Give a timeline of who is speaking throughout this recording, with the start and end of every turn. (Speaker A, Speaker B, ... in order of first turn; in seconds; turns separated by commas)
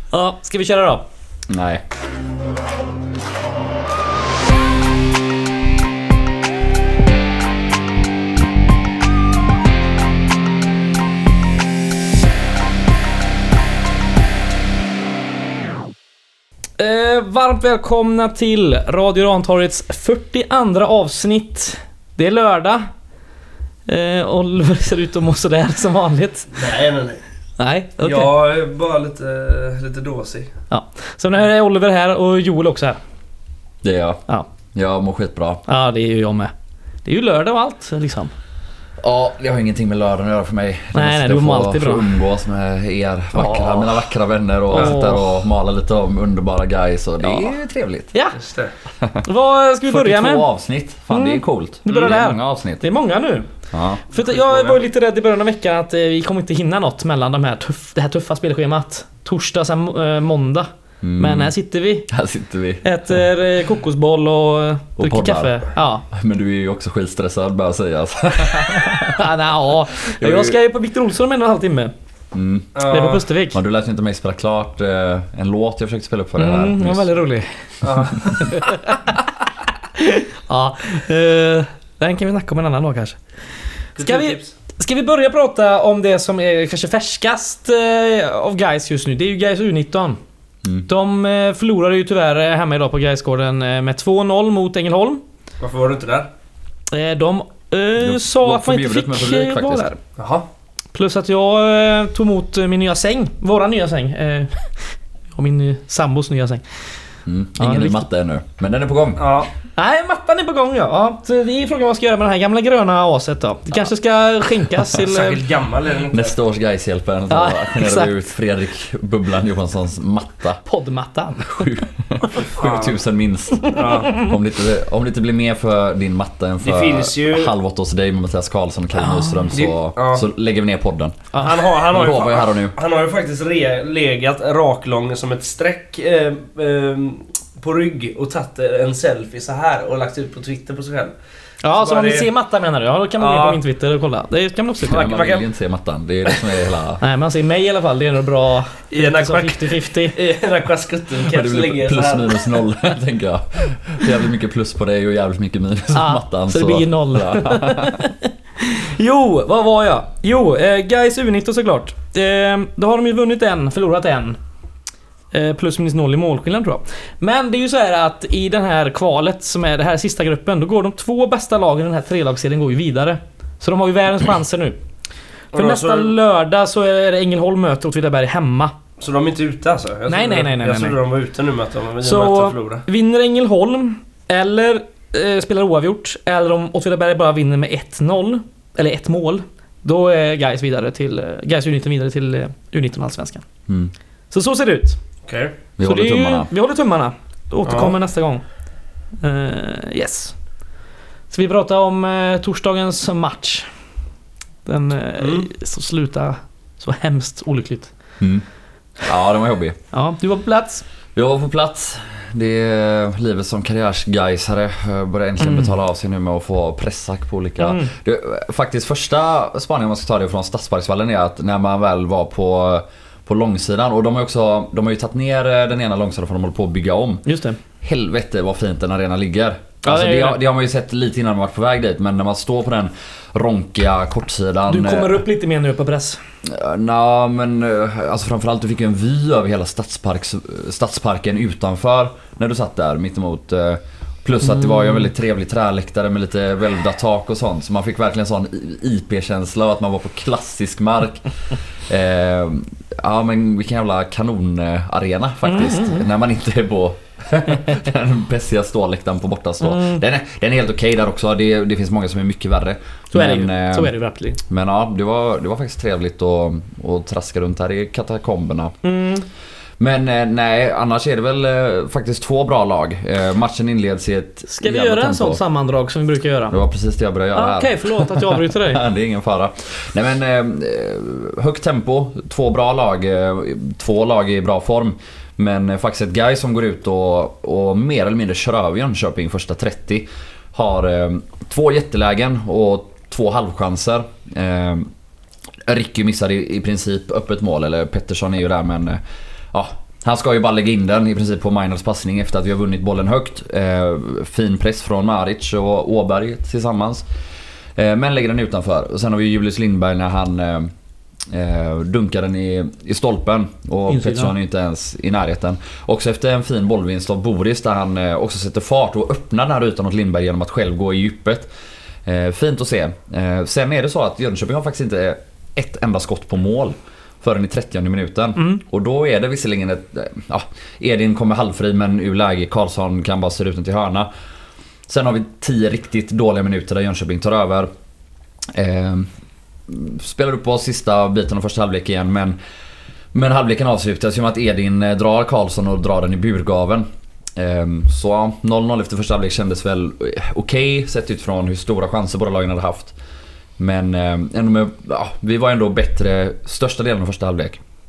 Speaker A: 0.1-1.1, Speaker B: 1.5-1.8, Speaker A: 16.8-22.9, Speaker A: 23.9-26.7, Speaker C: 26.6-27.2, Speaker A: 27.6-28.3, Speaker C: 28.0-30.5, Speaker A: 30.7-33.0, Speaker B: 33.8-34.2, Speaker B: 34.7-35.6, Speaker A: 35.7-36.5, Speaker A: 37.0-38.3, Speaker B: 39.0-48.1, Speaker A: 40.9-42.1, Speaker A: 43.3-44.0, Speaker A: 44.7-45.3, Speaker A: 48.1-48.4, Speaker C: 48.4-48.7, Speaker B: 49.0-49.2, Speaker A: 49.2-50.5, Speaker B: 49.9-52.8, Speaker A: 51.1-53.5, Speaker B: 53.7-54.0, Speaker A: 54.1-62.1, Speaker C: 54.2-54.8, Speaker B: 61.0-61.5, Speaker B: 62.1-63.2, Speaker A: 62.8-66.0, Speaker B: 65.0-69.3, Speaker A: 69.1-71.9, Speaker B: 70.0-70.6, Speaker B: 72.3-72.8, Speaker C: 72.8-73.2, Speaker A: 72.8-73.6, Speaker B: 73.5-77.1, Speaker A: 76.4-83.2, Speaker C: 77.8-78.3, Speaker C: 84.0-84.5, Speaker A: 84.0-90.2, Speaker A: 90.9-95.2, Speaker C: 95.6-96.3, Speaker A: 96.9-100.0, Speaker B: 98.0-99.9, Speaker C: 100.2-100.5, Speaker A: 100.9-106.6, Speaker B: 107.3-109.4, Speaker A: 107.6-108.1, Speaker C: 109.2-109.5, Speaker A: 109.8-115.4, Speaker C: 115.0-116.3, Speaker B: 116.1-120.6, Speaker A: 117.3-118.1, Speaker A: 120.7-121.7, Speaker B: 121.5-131.3, Speaker C: 122.6-122.9, Speaker A: 123.7-124.3, Speaker C: 123.7-124.2, Speaker C: 126.6-127.5, Speaker A: 129.0-129.5, Speaker C: 129.5-130.3, Speaker A: 131.3-131.6, Speaker C: 131.4-141.1, Speaker B: 131.9-132.8, Speaker A: 141.6-145.1, Speaker C: 141.7-142.3, Speaker C: 143.2-143.6, Speaker B: 144.9-147.0, Speaker C: 144.9-145.5, Speaker A: 147.0-150.2, Speaker C: 148.9-152.6, Speaker B: 151.2-158.0, Speaker A: 155.9-164.4, Speaker A: 165.3-174.8, Speaker A: 175.5-178.8, Speaker C: 175.5-176.2, Speaker C: 179.0-182.8, Speaker A: 180.1-181.0, Speaker A: 182.0-193.4, Speaker B: 193.7-193.9, Speaker A: 194.3-195.0, Speaker C: 195.3-195.6, Speaker B: 195.8-196.5, Speaker A: 195.8-198.4, Speaker C: 197.7-197.9, Speaker A: 199.2-200.3, Speaker A: 201.3-203.7, Speaker A: 204.7-207.9, Speaker C: 205.2-205.5, Speaker B: 208.2-208.4, Speaker B: 209.0-209.8, Speaker A: 209.9-210.8, Speaker B: 211.2-227.2, Speaker A: 215.4-215.7, Speaker A: 217.6-217.9, Speaker A: 227.3-227.6, Speaker B: 227.8-235.2, Speaker A: 229.8-230.4, Speaker A: 234.7-236.2, Speaker B: 236.4-251.3, Speaker A: 244.5-245.1, Speaker B: 251.9-263.9, Speaker A: 255.4-256.0, Speaker A: 259.6-260.0, Speaker A: 263.1-264.4, Speaker B: 264.5-268.7, Speaker A: 268.8-269.3, Speaker B: 269.8-275.4, Speaker A: 274.5-276.6, Speaker B: 276.5-294.9, Speaker A: 277.3-278.8, Speaker B: 295.7-299.0, Speaker B: 299.5-307.1, Speaker B: 307.8-310.7, Speaker B: 311.3-321.5, Speaker A: 313.9-314.3, Speaker B: 322.1-334.1, Speaker B: 334.9-337.7, Speaker B: 338.5-339.1, Speaker B: 339.7-342.4, Speaker B: 343.1-352.9, Speaker B: 353.6-357.6